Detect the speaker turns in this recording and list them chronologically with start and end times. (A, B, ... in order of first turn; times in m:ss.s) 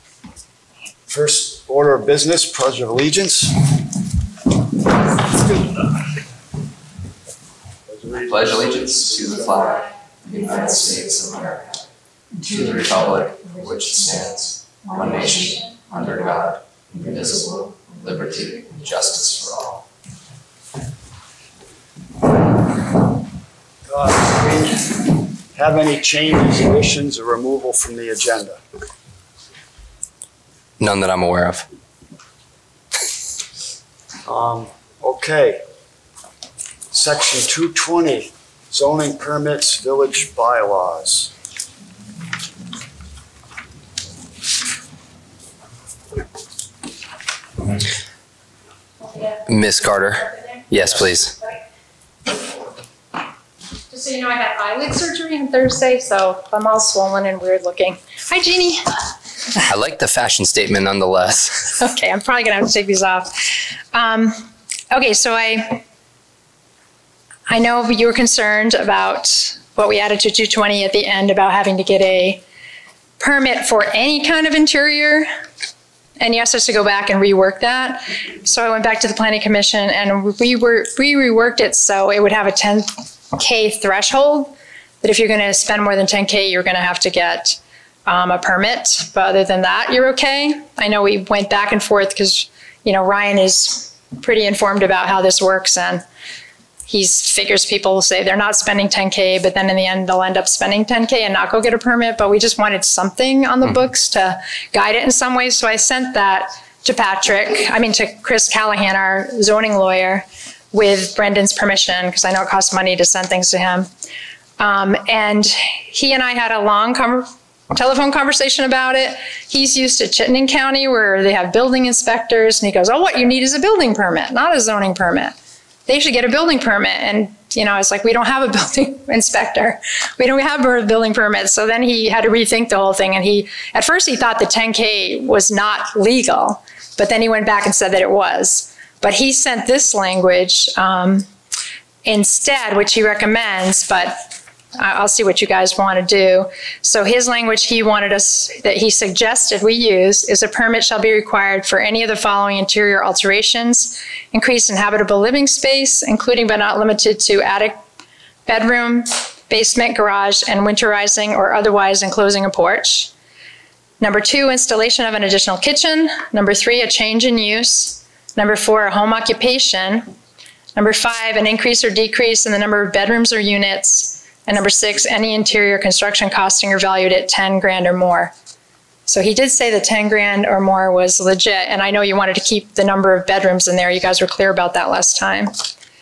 0:01.1-0:03.6 A
0:07.8-0:09.8 A
0:08.2-0:11.8 B
0:12.4-0:19.8 B
0:23.8-0:24.9 A
0:25.5-0:28.6 A
0:30.8-0:31.6 B
0:34.2-0:35.6 A
0:36.9-0:41.3 A
0:49.0-0:49.4 C
0:49.5-0:51.4 B
0:50.2-0:50.6 C
0:53.9-0:58.9 C
0:59.6-1:01.8 B
1:01.8-1:05.8 C
1:07.5-1:12.4 C
1:13.2-1:15.3 C
1:16.2-1:36.0 C
1:36.9-1:53.9 C
1:54.6-2:05.3 C
2:05.9-2:21.3 C
2:22.0-2:24.2 C
2:24.8-2:37.8 C
2:38.4-2:43.1 C
2:44.0-2:50.1 C
2:50.8-2:58.3 C
2:59.1-3:05.6 C